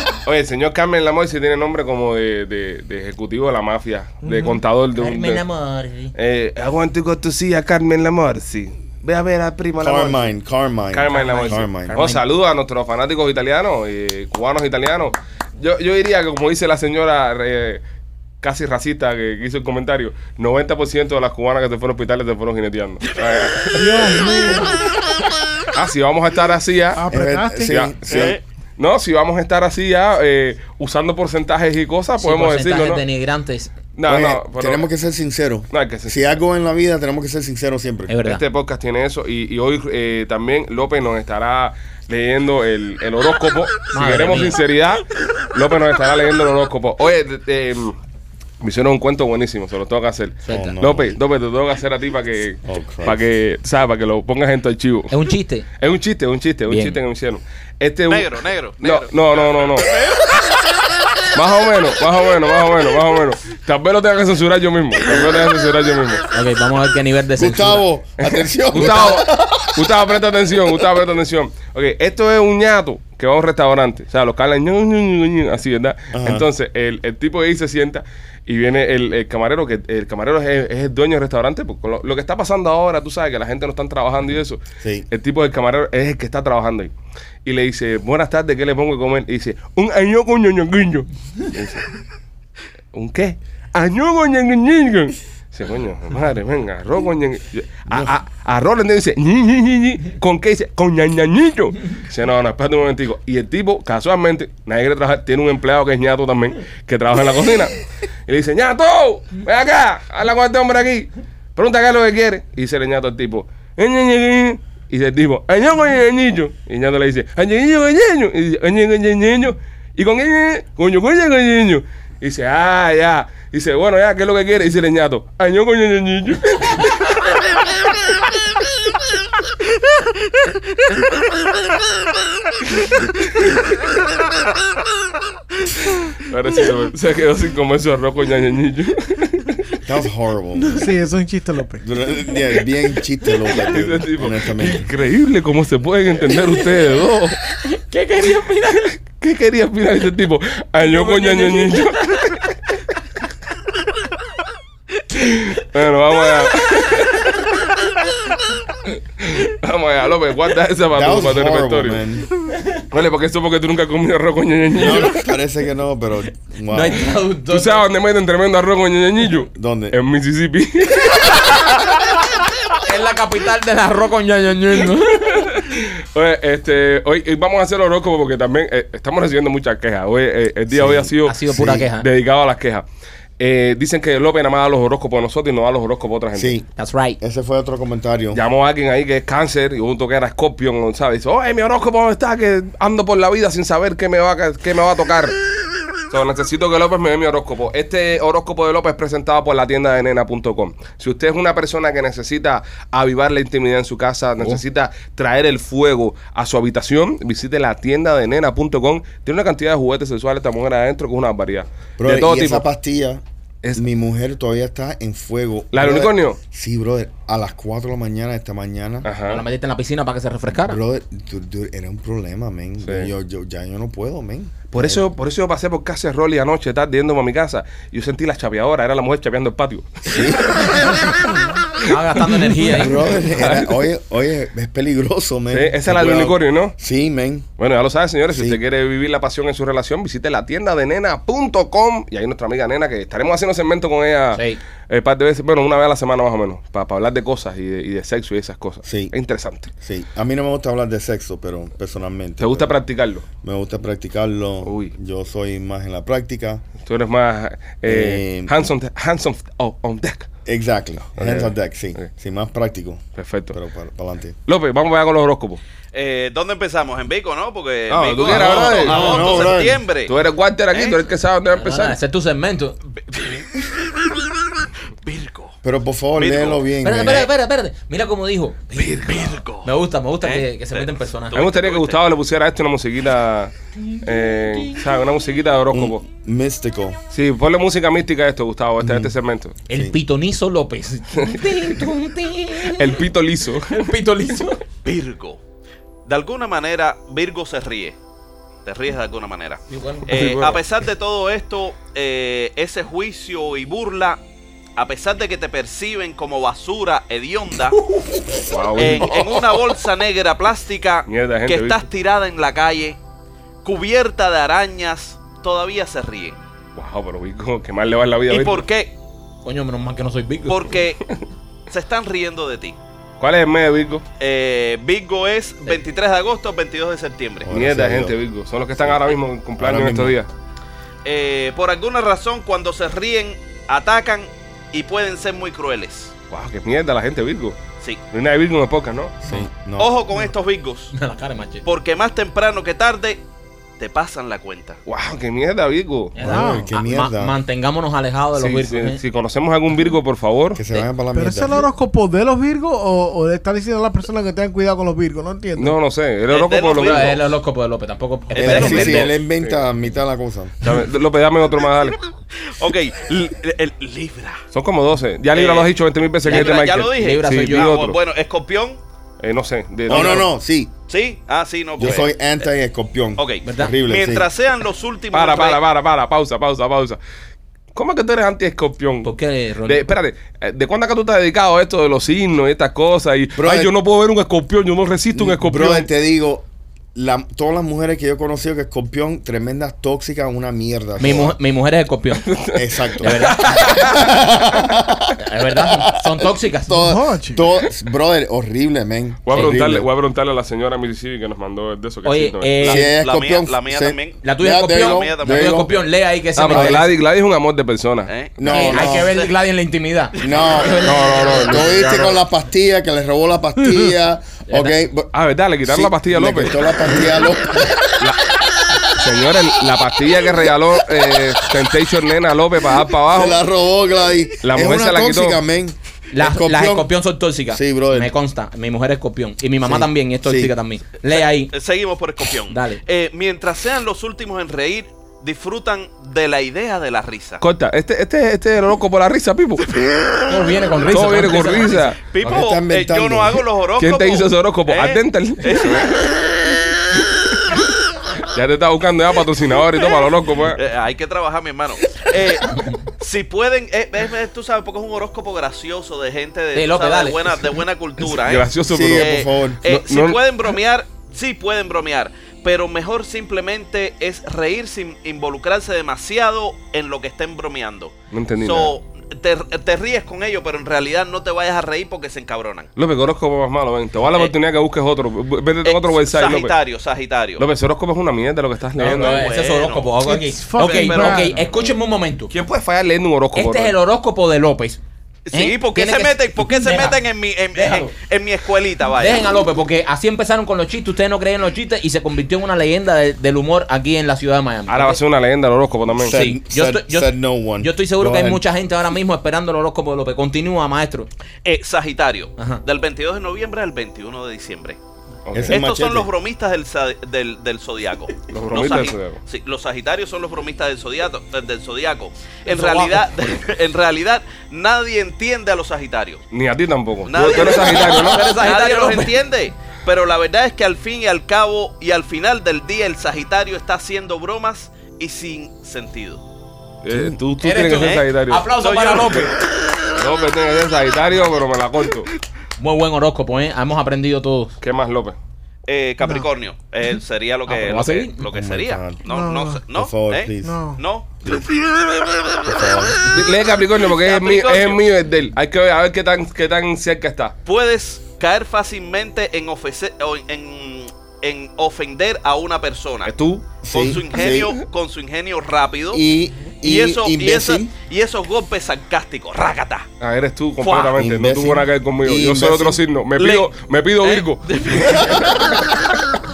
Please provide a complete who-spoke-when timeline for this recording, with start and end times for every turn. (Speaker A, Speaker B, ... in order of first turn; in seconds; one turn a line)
Speaker A: 0.2-5.4
Speaker B: 4.2-4.6
Speaker C: 5.0-6.1
Speaker A: 6.2-10.3
Speaker D: 9.8-12.0
Speaker A: 10.9-17.8
Speaker C: 11.1-12.2
Speaker A: 18.4-24.3
Speaker B: 23.7-24.8
Speaker A: 25.7-27.0
Speaker B: 26.9-27.8
Speaker D: 27.1-28.4
Speaker A: 27.6-33.0
Speaker E: 28.1-28.4
Speaker C: 32.2-33.7
Speaker A: 34.0-34.9
Speaker D: 34.1-38.1
Speaker A: 35.7-36.3
Speaker C: 38.1-38.4
Speaker A: 38.2-48.0
Speaker C: 43.9-44.6
Speaker A: 48.6-55.1
Speaker C: 50.4-50.7
Speaker D: 50.5-51.2
Speaker D: 52.6-53.2
Speaker C: 55.1-55.7
Speaker A: 55.8-59.9
Speaker C: 56.7-57.0
Speaker E: 58.1-60.5
Speaker A: 61.3-66.2
Speaker C: 66.3-67.8
Speaker D: 67.4-70.0
Speaker A: 68.2-86.9
Speaker C: 68.8-69.2
Speaker D: 76.1-76.5
Speaker D: 84.8-85.1
Speaker A: 87.5-91.9
Speaker A: 92.9-127.2
Speaker A: 136.2-139.6
Speaker D: 139.8-140.9
Speaker B: 140.6-141.9
Speaker D: 141.8-144.9
Speaker A: 143.6-147.4
Speaker C: 147.7-148.9
Speaker A: 149.1-152.5
Speaker C: 151.0-151.8
Speaker A: 155.2-157.6
Speaker A: 159.2-162.1
Speaker D: 160.9-162.3
Speaker A: 162.9-165.2
Speaker D: 164.7-167.1
Speaker C: 166.7-167.9
Speaker A: 167.5-171.7
Speaker D: 169.5-170.0
Speaker C: 172.8-175.5
Speaker A: 175.1-182.8
Speaker D: 180.7-181.9
Speaker C: 181.2-182.1
Speaker A: 183.4-186.6
Speaker D: 186.3-186.7
Speaker C: 186.8-187.2
Speaker D: 187.2-188.4
Speaker A: 188.3-195.4
Speaker A: 196.1-212.7
Speaker D: 212.0-213.2
Speaker D: 213.8-219.1
Speaker A: 215.7-216.4
Speaker A: 219.1-219.4
Speaker C: 219.2-220.8
Speaker D: 220.6-225.0
Speaker A: 222.8-223.1
Speaker A: 224.7-231.1
Speaker D: 230.1-230.7
Speaker C: 231.8-233.1
Speaker D: 232.7-237.5
Speaker A: 232.9-233.8
Speaker A: 235.5-236.8
Speaker A: 237.6-249.7
Speaker D: 238.3-238.6
Speaker C: 244.3-244.6
Speaker D: 248.9-249.1
Speaker D: 249.8-252.8
Speaker A: 252.4-253.3
Speaker D: 253.4-256.6
Speaker A: 254.6-254.9
Speaker A: 256.8-260.3
Speaker D: 257.9-258.5
Speaker D: 260.5-264.4
Speaker A: 261.2-262.1
Speaker A: 263.2-263.6
Speaker A: 264.5-265.6
Speaker E: 265.9-270.1
Speaker A: 267.9-269.5
Speaker D: 268.1-269.8
Speaker A: 270.1-272.0
Speaker E: 270.7-271.0
Speaker C: 271.6-272.8
Speaker E: 273.1-273.4
Speaker E: 275.0-275.6
Speaker D: 275.6-277.3
Speaker E: 276.2-276.6
Speaker C: 276.8-281.4
Speaker E: 278.8-279.7
Speaker E: 280.2-282.0
Speaker A: 281.3-286.0
Speaker D: 285.7-287.0
Speaker A: 287.1-289.6
Speaker D: 288.8-289.1
Speaker C: 289.7-293.0
Speaker D: 289.7-290.0
Speaker A: 291.2-291.4
Speaker A: 292.6-293.9
Speaker C: 293.7-294.6
Speaker E: 294.8-295.4
Speaker E: 296.1-298.0
Speaker E: 298.6-304.2
Speaker C: 299.7-300.1
Speaker A: 300.1-300.6
Speaker E: 304.8-307.8
Speaker C: 307.9-308.2
Speaker A: 308.5-309.6
Speaker E: 308.8-313.0
Speaker A: 311.1-311.9
Speaker E: 313.6-316.4
Speaker A: 316.8-318.7
Speaker E: 318.3-318.9
Speaker C: 319.4-320.8
Speaker E: 320.5-321.0
Speaker E: 321.7-322.8
Speaker A: 323.2-324.1
Speaker E: 324.2-327.5
Speaker D: 327.4-328.2
Speaker A: 327.5-330.3
Speaker D: 329.6-330.2
Speaker E: 331.1-336.1
Speaker A: 336.3-337.6
Speaker A: 338.1-339.2
Speaker D: 339.2-340.0
Speaker E: 339.8-340.9
Speaker C: 340.9-341.7
Speaker E: 341.6-343.2
Speaker E: 343.8-344.8
Speaker A: 344.9-346.1
Speaker C: 346.1-349.0
Speaker B: 346.2-346.7
Speaker D: 346.2-347.4
Speaker A: 348.4-350.6
Speaker D: 350.6-351.7
Speaker B: 351.1-355.8
Speaker A: 355.6-357.2
Speaker E: 356.3-357.2
Speaker C: 356.7-359.2
Speaker E: 358.3-359.1
Speaker D: 358.3-360.6
Speaker A: 359.3-359.6
Speaker A: 360.6-362.0
Speaker E: 362.6-364.4
Speaker A: 364.5-368.0
Speaker E: 365.3-365.7
Speaker E: 366.2-368.8
Speaker C: 366.2-367.8
Speaker A: 369.2-370.3
Speaker D: 369.9-370.7
Speaker E: 369.9-370.2
Speaker E: 370.9-372.1
Speaker D: 371.8-374.3
Speaker E: 373.2-375.6
Speaker C: 373.4-373.8
Speaker A: 375.1-377.0
Speaker A: 377.8-379.1
Speaker C: 379.0-379.8
Speaker A: 379.7-385.9
Speaker D: 383.4-383.7
Speaker D: 385.1-391.4
Speaker C: 391.0-392.3
Speaker A: 392.2-394.1
Speaker D: 392.5-399.9
Speaker C: 393.0-394.0
Speaker C: 395.2-396.9
Speaker B: 396.7-397.4
Speaker A: 399.3-402.6
Speaker C: 399.3-399.6
Speaker C: 402.0-402.9
Speaker D: 402.6-405.8
Speaker E: 402.6-404.2
Speaker C: 404.2-406.9
Speaker E: 404.7-405.7
Speaker A: 406.4-408.1
Speaker D: 406.5-406.8
Speaker E: 408.1-409.3
Speaker D: 408.4-409.1
Speaker C: 408.4-412.2
Speaker D: 410.2-415.1
Speaker A: 410.7-412.2
Speaker C: 414.5-414.8
Speaker A: 415.1-416.6
Speaker D: 415.6-417.8
Speaker A: 418.9-423.4
Speaker D: 423.1-426.9
Speaker A: 424.4-425.4
Speaker C: 426.1-431.5
Speaker D: 427.5-428.1
Speaker D: 429.6-430.5
Speaker E: 431.1-437.4
Speaker C: 432.5-432.8
Speaker A: 437.4-439.7
Speaker C: 440.3-441.9
Speaker A: 440.8-442.0
Speaker E: 442.1-446.0
Speaker D: 442.2-443.4
Speaker A: 443.8-446.1
Speaker A: 448.3-450.6
Speaker E: 450.6-472.7
Speaker C: 456.6-457.6
Speaker A: 458.1-460.2
Speaker D: 458.6-459.6
Speaker A: 468.1-468.8
Speaker A: 472.8-476.6
Speaker E: 475.6-477.4
Speaker A: 477.4-479.3
Speaker C: 478.8-482.3
Speaker E: 478.8-480.0
Speaker B: 480.1-481.4
Speaker E: 480.6-481.5
Speaker A: 482.3-483.8
Speaker C: 483.4-484.8
Speaker E: 485.3-489.3
Speaker C: 485.3-487.9
Speaker C: 489.0-495.0
Speaker A: 494.7-496.2
Speaker D: 495.9-498.4
Speaker C: 496.1-501.1
Speaker E: 501.4-504.8
Speaker C: 502.4-502.6
Speaker A: 505.3-505.6
Speaker D: 505.3-506.1
Speaker E: 505.5-516.2
Speaker A: 508.3-509.2
Speaker C: 512.5-513.1
Speaker A: 516.3-518.4
Speaker E: 517.1-526.2
Speaker C: 517.4-519.1
Speaker A: 526.8-528.5
Speaker D: 526.9-527.2
Speaker C: 527.4-529.4
Speaker E: 527.7-529.4
Speaker A: 529.9-532.1
Speaker C: 532.6-534.5
Speaker A: 534.6-535.2
Speaker E: 535.7-541.3
Speaker C: 537.5-538.2
Speaker D: 538.3-539.0
Speaker B: 539.1-539.6
Speaker D: 539.7-540.6
Speaker B: 540.4-540.8
Speaker D: 541.2-541.5
Speaker D: 542.4-543.1
Speaker A: 543.1-547.4
Speaker E: 543.8-544.9
Speaker E: 547.5-553.1
Speaker A: 553.0-553.5
Speaker D: 553.6-554.6
Speaker E: 553.7-556.0
Speaker D: 555.9-557.7
Speaker E: 556.6-559.9
Speaker A: 560.0-565.2
Speaker E: 560.6-561.0
Speaker D: 561.0-562.8
Speaker E: 563.2-563.5
Speaker E: 564.0-565.9